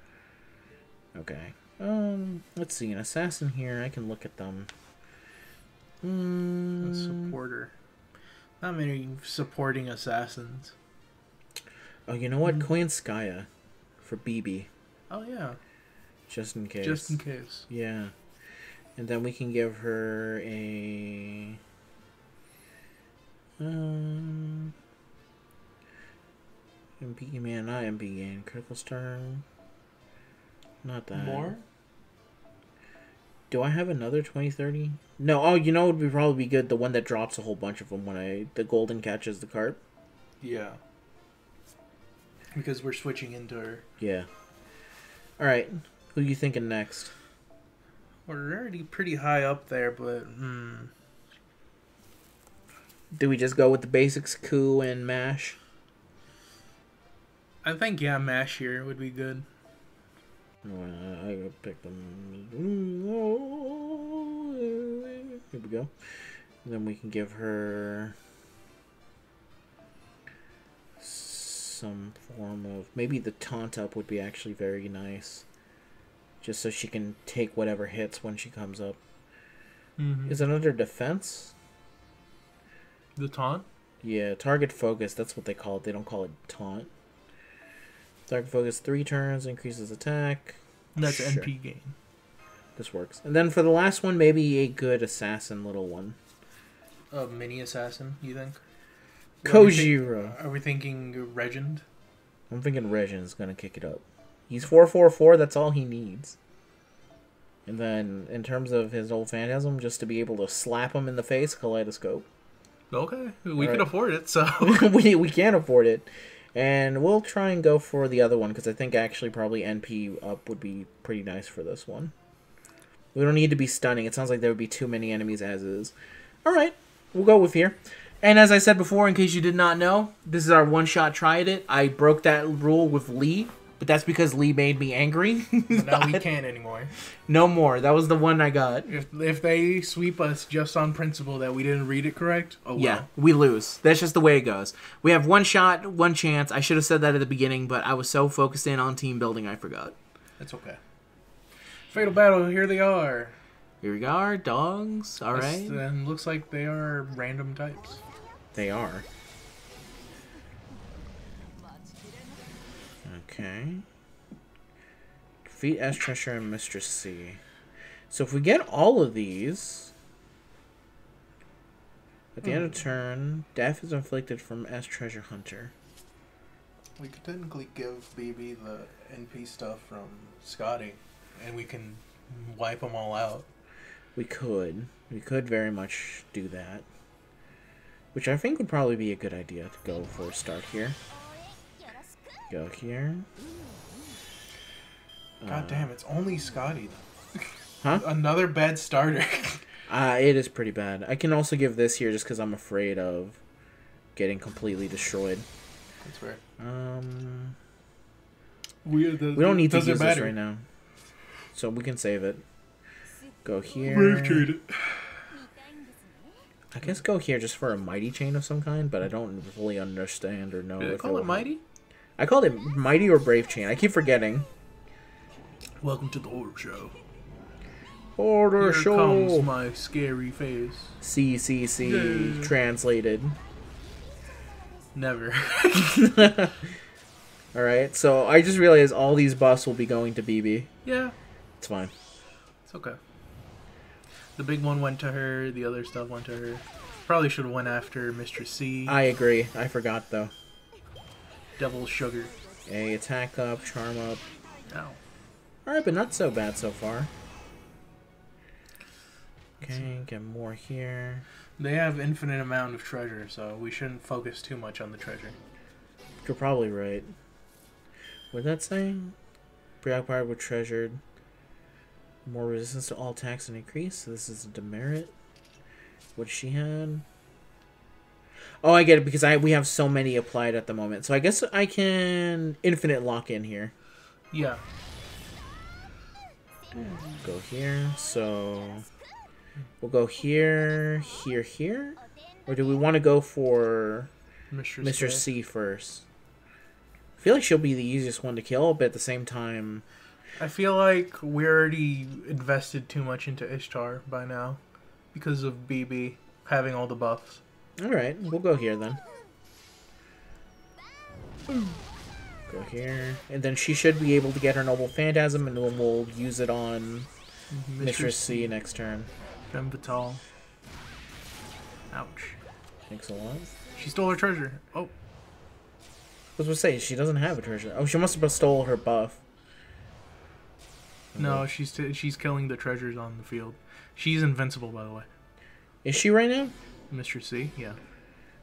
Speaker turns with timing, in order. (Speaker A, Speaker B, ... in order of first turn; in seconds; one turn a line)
Speaker A: 1.1-4.7
Speaker A: 6.0-7.3
Speaker B: 6.8-7.7
Speaker B: 8.6-10.7
Speaker A: 12.1-13.5
Speaker A: 14.0-14.7
Speaker B: 15.1-15.6
Speaker A: 16.3-18.1
Speaker B: 16.8-17.7
Speaker A: 19.0-21.6
Speaker A: 23.6-24.7
Speaker A: 27.0-29.4
Speaker A: 30.8-31.5
Speaker B: 31.1-31.6
Speaker A: 33.5-39.8
Speaker B: 40.4-40.8
Speaker B: 42.5-43.8
Speaker A: 44.0-44.3
Speaker A: 45.4-47.1
Speaker B: 48.3-50.9
Speaker A: 53.1-55.6
Speaker B: 57.6-59.5
Speaker A: 60.6-65.9
Speaker A: 66.6-68.2
Speaker A: 71.0-75.5
Speaker A: 76.4-79.0
Speaker B: 80.0-80.4
Speaker A: 80.3-81.5
Speaker B: 83.2-83.7
Speaker A: 84.0-86.9
Speaker A: 88.3-91.5
Speaker B: 91.0-91.9
Speaker A: 92.8-96.2
Speaker B: 97.1-98.6
Speaker B: 99.4-101.8
Speaker A: 99.4-100.4
Speaker A: 102.5-106.4
Speaker A: 107.7-112.3
Speaker B: 112.9-114.9
Speaker A: 113.6-113.9
Speaker A: 114.6-122.1
Speaker A: 123.1-136.2
Speaker B: 135.7-136.9
Speaker A: 137.3-138.9
Speaker B: 138.9-143.1
Speaker A: 142.8-149.9
Speaker B: 150.4-150.8
Speaker B: 151.9-153.3
Speaker A: 153.8-155.8
Speaker B: 155.3-158.0
Speaker A: 158.5-159.1
Speaker A: 163.1-163.8
Speaker A: 165.4-167.4
Speaker A: 168.1-169.9
Speaker A: 172.4-175.7
Speaker B: 172.4-172.7
Speaker B: 177.0-183.5
Speaker A: 184.2-186.8
Speaker A: 188.1-191.0
Speaker A: 192.5-193.3
Speaker A: 195.4-195.9
Speaker B: 195.5-197.4
Speaker B: 197.9-199.6
Speaker A: 199.9-203.4
Speaker A: 204.2-205.5
Speaker B: 206.0-206.4
Speaker A: 206.6-207.6
Speaker B: 208.8-210.3
Speaker A: 209.3-210.7
Speaker A: 211.5-212.4
Speaker A: 213.4-214.5
Speaker B: 213.9-215.3
Speaker A: 216.7-221.5
Speaker B: 220.8-221.6
Speaker A: 222.2-224.5
Speaker B: 225.8-227.0
Speaker A: 228.2-229.5
Speaker B: 228.6-231.0
Speaker A: 231.0-233.4
Speaker B: 231.8-232.5
Speaker B: 234.9-236.2
Speaker A: 235.9-236.7
Speaker A: 237.5-240.7
Speaker B: 240.8-241.2
Speaker A: 241.6-241.9
Speaker B: 242.7-243.0
Speaker B: 244.4-249.0
Speaker A: 248.9-250.3
Speaker B: 251.6-252.4
Speaker A: 252.7-254.2
Speaker B: 254.7-255.0
Speaker A: 255.7-257.1
Speaker A: 259.6-261.2
Speaker B: 261.6-265.4
Speaker A: 266.2-267.1
Speaker A: 268.3-269.1
Speaker A: 269.8-271.0
Speaker A: 272.2-275.1
Speaker A: 276.2-277.0
Speaker A: 278.6-283.7
Speaker B: 284.3-284.6
Speaker B: 286.8-287.2
Speaker A: 287.2-288.9
Speaker A: 289.8-294.1
Speaker B: 294.5-295.3
Speaker A: 294.8-296.1
Speaker A: 297.2-299.8
Speaker B: 300.4-304.6
Speaker B: 305.1-307.4
Speaker A: 307.8-309.0
Speaker A: 312.5-317.1
Speaker B: 317.5-318.5
Speaker A: 317.8-319.1
Speaker B: 319.5-320.2
Speaker B: 321.9-322.4
Speaker A: 322.9-323.5
Speaker B: 323.7-324.9
Speaker A: 326.4-329.2
Speaker A: 331.1-331.4
Speaker B: 331.2-335.1
Speaker A: 335.9-336.5
Speaker B: 336.9-337.8